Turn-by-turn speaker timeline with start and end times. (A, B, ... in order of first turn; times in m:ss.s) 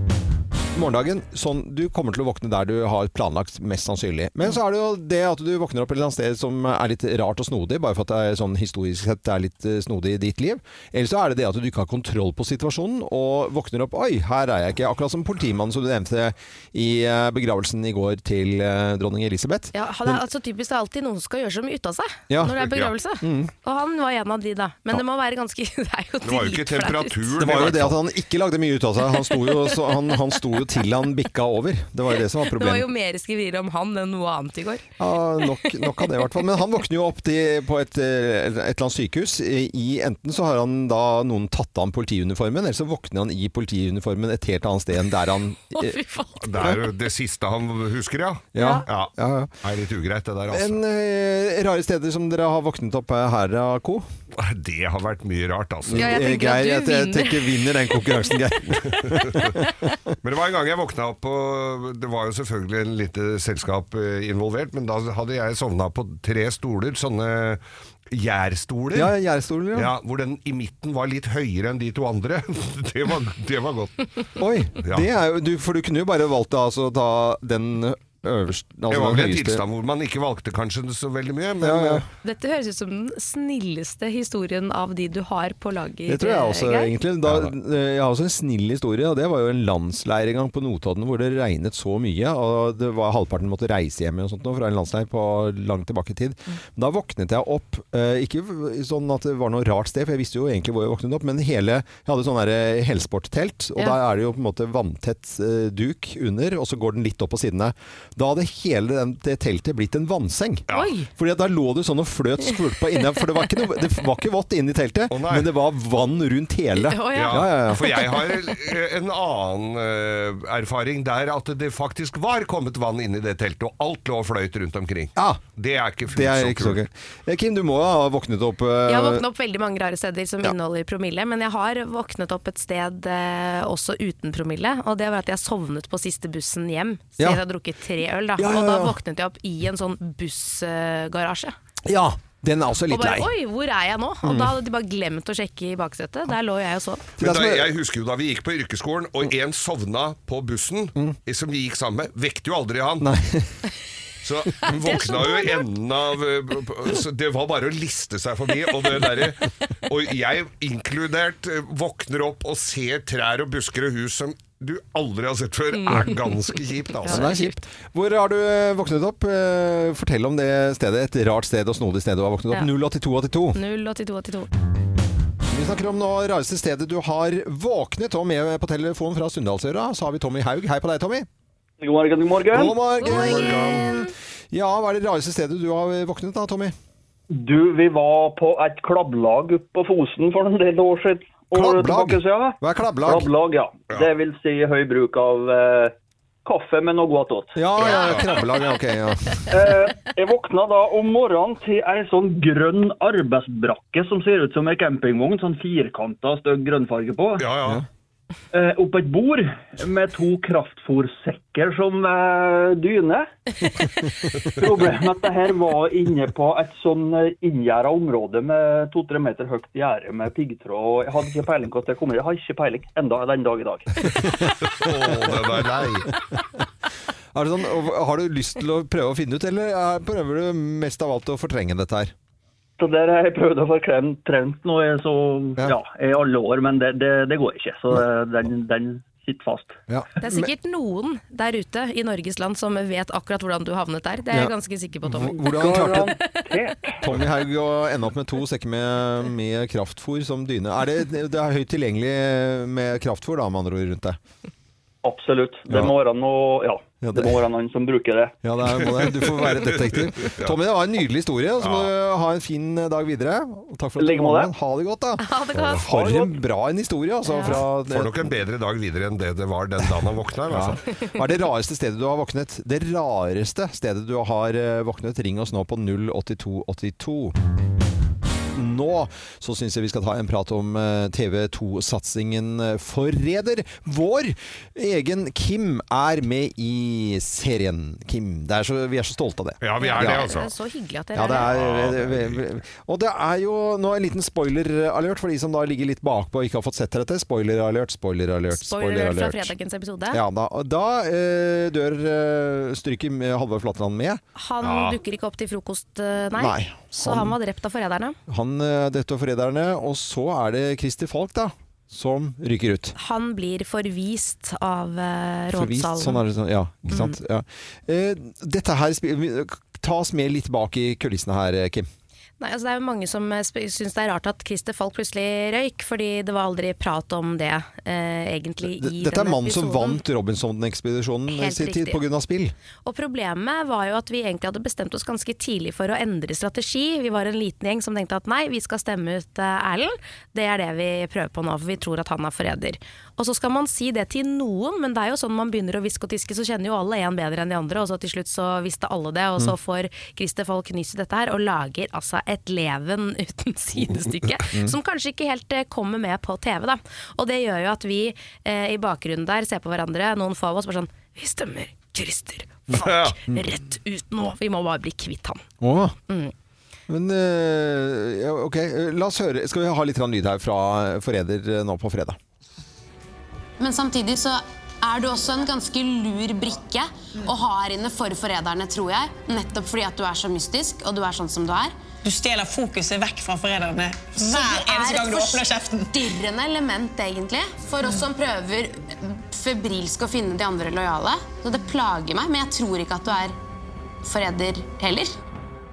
0:00.7-0:20.2 A
0:19.7-0:27.3 B
0:22.3-0:22.6 A
0:22.4-0:22.9 C
0:23.2-0:23.5 A
0:26.2-0:28.0 C
0:27.4-0:32.9 A
0:29.3-0:30.2 B
0:32.4-0:34.8 B
0:35.0-0:46.0 A
0:35.4-0:36.1 B
0:45.7-0:46.4 B
0:46.4-0:50.8 C
0:48.5-0:49.5 A
0:48.6-0:48.8 B
0:50.5-0:54.0 A
0:54.3-0:56.1 C
0:55.9-0:59.7 A
0:55.9-0:57.7 B
0:59.0-0:59.6 C
1:00.2-1:09.1 C
1:08.9-1:09.9 A
1:09.7-1:14.2 C
1:14.4-1:19.6 A
1:14.8-1:15.1 C
1:18.9-1:22.1 C
1:21.6-1:22.0 A
1:22.2-1:26.9 B
1:26.1-1:58.0 A
1:27.2-1:27.5 C
1:50.7-1:51.1 B
1:55.1-1:55.5 C
1:56.7-1:58.0 B
1:57.1-2:06.8 C
2:05.2-2:05.4 A
2:06.1-2:09.2 A
2:08.9-2:21.5 B
2:18.4-2:19.0 A
2:21.8-2:23.3 A
2:22.9-2:27.0 B
2:24.2-2:24.5 A
2:27.2-2:27.7 A
2:27.2-2:33.1 C
2:33.0-2:33.6 A
2:34.2-2:47.4 C
2:34.6-2:35.6 B
2:45.8-2:46.1 B
2:47.0-2:47.5 B
2:47.0-2:53.6 A
2:53.5-2:54.5 B
2:55.5-3:01.3 A
3:01.8-3:02.7 D
3:02.5-3:06.7 A
3:03.0-3:03.9 C
3:03.0-3:04.1 B
3:07.3-3:15.9 D
3:11.5-3:13.3 A
3:16.4-3:17.6 D
3:17.5-3:19.5 A
3:17.8-3:18.3 C
3:17.8-3:18.2 B
3:19.5-3:27.4 D
3:27.4-3:27.8 C
3:28.5-3:33.3 D
3:34.0-3:44.2 D
3:44.5-3:46.1 C
3:47.3-3:52.1 A
3:52.8-3:59.8 D
3:59.9-4:00.5 A
4:00.2-4:05.4 B
4:04.3-4:06.1 A
4:05.3-4:07.0 D
4:07.0-4:14.2 A
4:15.0-4:18.3 D
4:17.0-4:17.4 A
4:18.4-4:28.3 A
4:18.9-4:20.6 C
4:21.6-4:21.9 C
4:24.0-4:24.5 D
4:25.2-4:25.9 B
4:25.5-4:26.2 C
4:27.3-4:27.6 B
4:27.5-4:30.8 C
4:30.5-4:37.4 A
4:38.5-4:50.3 A
4:49.6-4:50.5 C
4:49.8-4:51.5 B
4:51.1-4:59.5 A
4:51.4-4:52.4 C
4:58.5-5:00.2 B
5:00.1-5:04.2 A
5:04.4-5:08.2 B
5:04.6-5:05.0 C
5:06.4-5:07.4 A
5:08.3-5:12.9 A
5:13.0-5:16.2 B
5:15.5-5:21.9 A
5:16.9-5:17.2 B
5:22.4-5:30.0 B
5:28.6-5:32.5 A
5:31.3-5:32.0 B
5:32.8-6:05.4 B
5:54.5-5:54.7 A
6:02.7-6:03.4 A
6:02.8-6:03.1 C
6:05.6-6:05.9 A
6:06.9-6:12.2 A
6:13.6-6:21.7 E
6:22.0-6:26.0 F
6:24.3-6:25.4 E
6:25.9-6:33.3 E
6:34.0-6:35.1 E